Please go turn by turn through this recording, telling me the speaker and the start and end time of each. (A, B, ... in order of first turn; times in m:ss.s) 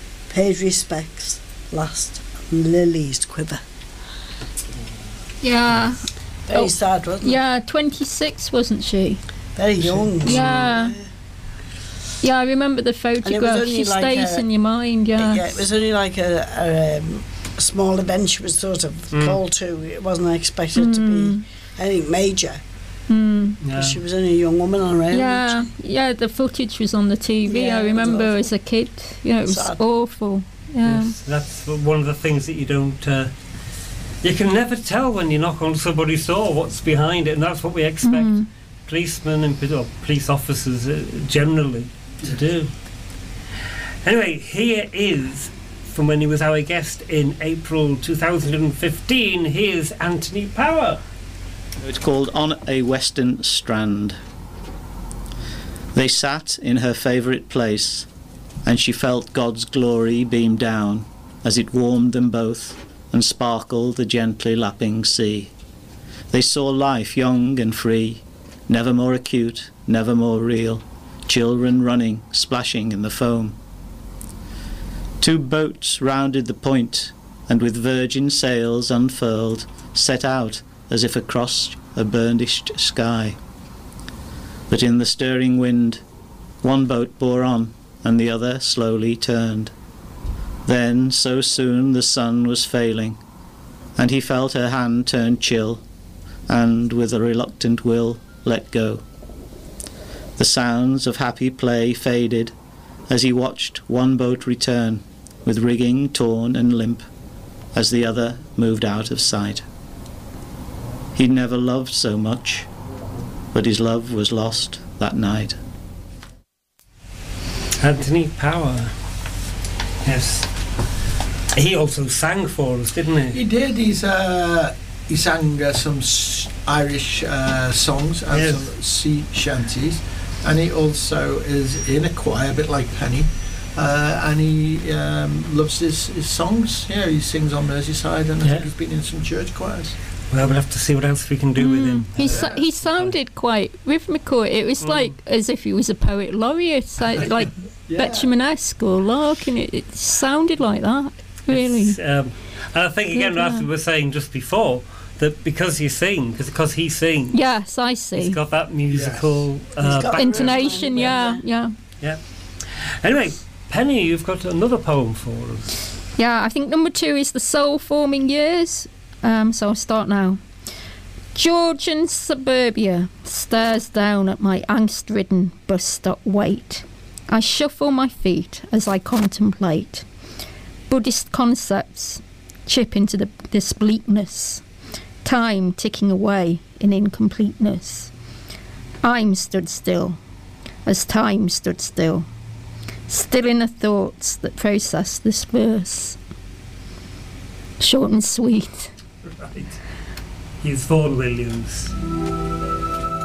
0:00.3-0:03.6 A
0:05.4-0:09.2 B
0:06.5-0:07.4 A
0:09.6-0:11.0 A
0:10.2-0:11.0 B
0:12.2-0:15.6 B
0:13.2-0:14.5 A
0:15.2-0:22.6 A
0:19.1-0:19.4 C
0:20.8-0:21.4 B
0:23.1-0:23.6 B
0:23.6-0:24.0 C
0:23.7-0:25.7 A
0:25.1-0:31.2 B
0:27.5-0:28.5 A
0:29.5-0:29.8 A
0:30.8-0:33.3 C
0:34.2-0:42.7 C
0:38.0-0:38.5 B
0:44.0-0:51.0 C
0:51.8-0:54.2 D
0:55.9-0:58.1 D
0:58.6-1:05.5 D
1:06.3-1:13.6 D
1:15.2-1:23.4 D
1:24.7-1:26.0 D
1:26.6-1:29.7 D
1:30.7-1:33.2 D
1:34.0-1:35.8 D
1:36.5-1:39.0 D
1:40.4-1:42.6 D
1:43.1-1:47.1 D
1:47.7-1:49.7 D
1:51.2-1:52.7 D
1:53.5-1:55.6 D
1:57.8-1:59.0 C
2:00.0-2:00.5 C
2:01.5-2:03.4 C
2:03.3-2:20.0 E
2:08.3-2:08.6 C
2:18.4-2:18.7 C
2:20.3-2:23.2 C
2:21.6-2:32.0 B
2:22.2-2:22.6 E
2:24.8-2:25.1 C
2:27.9-2:28.3 E
2:31.5-2:37.5 C
2:33.2-2:33.7 B
2:37.3-2:38.4 B
2:38.1-2:41.2 C
2:38.9-2:39.5 E
2:39.8-2:41.4 A
2:40.0-2:41.7 B
2:42.7-2:45.8 C
2:46.2-2:50.4 B
2:51.4-3:00.0 B
3:00.9-3:04.6 B
3:05.2-3:08.1 B
3:09.0-3:10.2 B
3:10.9-3:12.3 B
3:13.1-3:16.2 B
3:17.8-3:18.9 B
3:19.3-3:19.8 C
3:20.6-3:21.9 C